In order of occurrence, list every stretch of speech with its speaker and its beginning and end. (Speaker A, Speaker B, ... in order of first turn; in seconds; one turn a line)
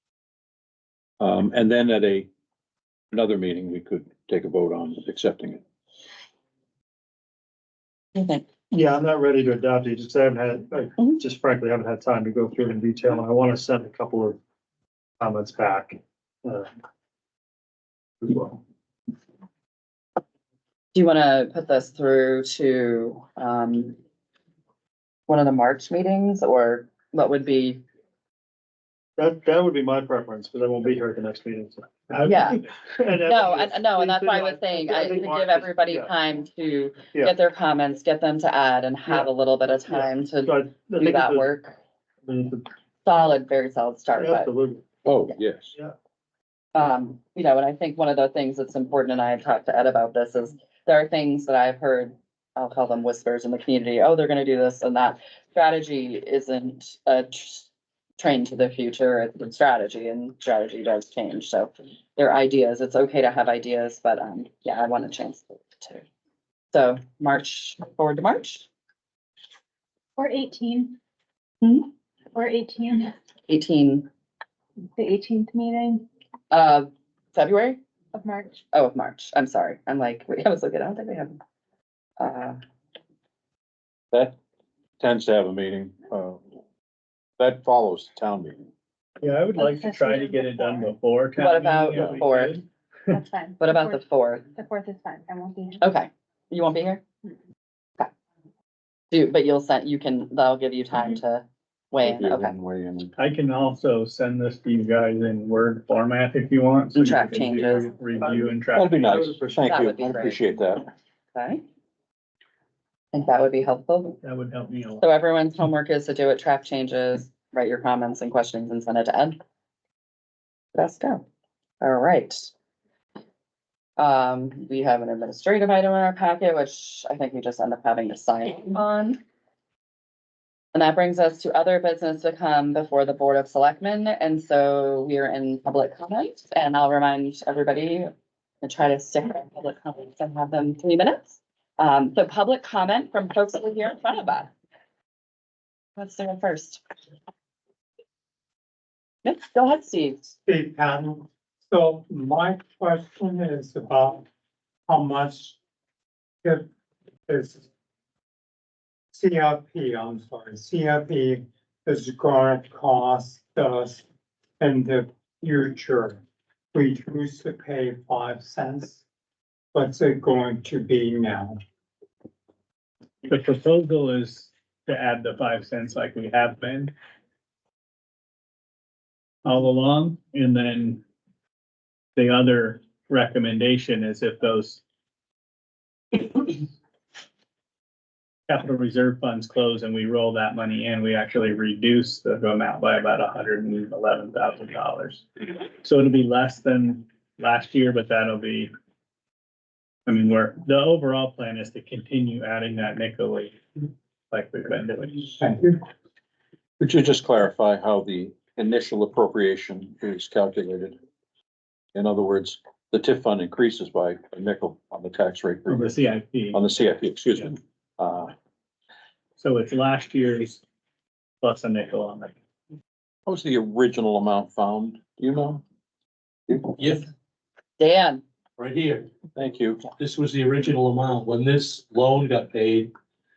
Speaker A: 1.2-2.3
Speaker A: 3.1-5.6
Speaker B: 8.1-8.4
Speaker C: 8.7-14.4
Speaker C: 15.2-16.7
Speaker C: 18.2-18.6
Speaker B: 20.9-23.9
Speaker B: 25.3-27.8
Speaker C: 29.2-36.1
Speaker B: 32.2-32.6
Speaker B: 33.2-41.8
Speaker C: 39.9-41.5
Speaker C: 42.2-42.6
Speaker B: 43.0-44.5
Speaker C: 44.1-44.8
Speaker A: 45.0-45.8
Speaker B: 46.7-57.7
Speaker B: 58.2-66.0
Speaker B: 66.7-68.7
Speaker D: 70.2-70.9
Speaker D: 72.3-73.1
Speaker B: 73.5-74.0
Speaker D: 75.0-76.0
Speaker B: 76.5-77.8
Speaker D: 78.1-78.6
Speaker B: 78.7-81.3
Speaker B: 82.2-82.6
Speaker A: 85.0-86.4
Speaker A: 87.4-88.7
Speaker E: 89.2-93.2
Speaker D: 89.6-90.9
Speaker B: 91.4-92.6
Speaker D: 93.1-94.0
Speaker B: 93.6-94.4
Speaker D: 94.5-95.8
Speaker B: 95.8-97.0
Speaker B: 99.1-102.5
Speaker A: 102.0-103.1
Speaker E: 103.2-109.0
Speaker B: 107.0-107.9
Speaker C: 108.2-108.5
Speaker A: 108.7-110.8
Speaker C: 109.0-109.5
Speaker B: 109.6-110.4
Speaker B: 111.3-111.6
Speaker B: 113.1-114.2
Speaker E: 114.2-115.0
Speaker B: 115.0-119.4
Speaker B: 120.7-121.2
Speaker B: 121.8-122.5
Speaker B: 124.0-129.2
Speaker B: 130.7-138.1
Speaker B: 138.6-144.5
Speaker B: 145.9-146.8
Speaker B: 149.2-150.3
Speaker F: 150.4-154.2
Speaker F: 154.9-155.6
Speaker F: 157.3-157.7
Speaker F: 159.1-164.0
Speaker F: 164.6-166.2
Speaker F: 166.7-169.0
Speaker F: 169.7-171.6
Speaker E: 173.2-176.9
Speaker E: 179.4-181.0
Speaker E: 182.2-184.8
Speaker E: 188.5-195.2
Speaker E: 195.8-198.7
Speaker E: 200.1-205.4
Speaker F: 205.4-205.8
Speaker A: 206.8-211.0
Speaker A: 211.9-216.0
Speaker E: 215.7-216.6
Speaker A: 216.5-218.3
Speaker E: 219.4-220.6
Speaker E: 221.4-222.3
Speaker A: 223.2-225.6
Speaker A: 226.5-226.7
Speaker G: 226.8-227.1
Speaker B: 227.8-228.2
Speaker G: 228.6-229.1
Speaker A: 229.3-229.9
Speaker G: 230.0-232.9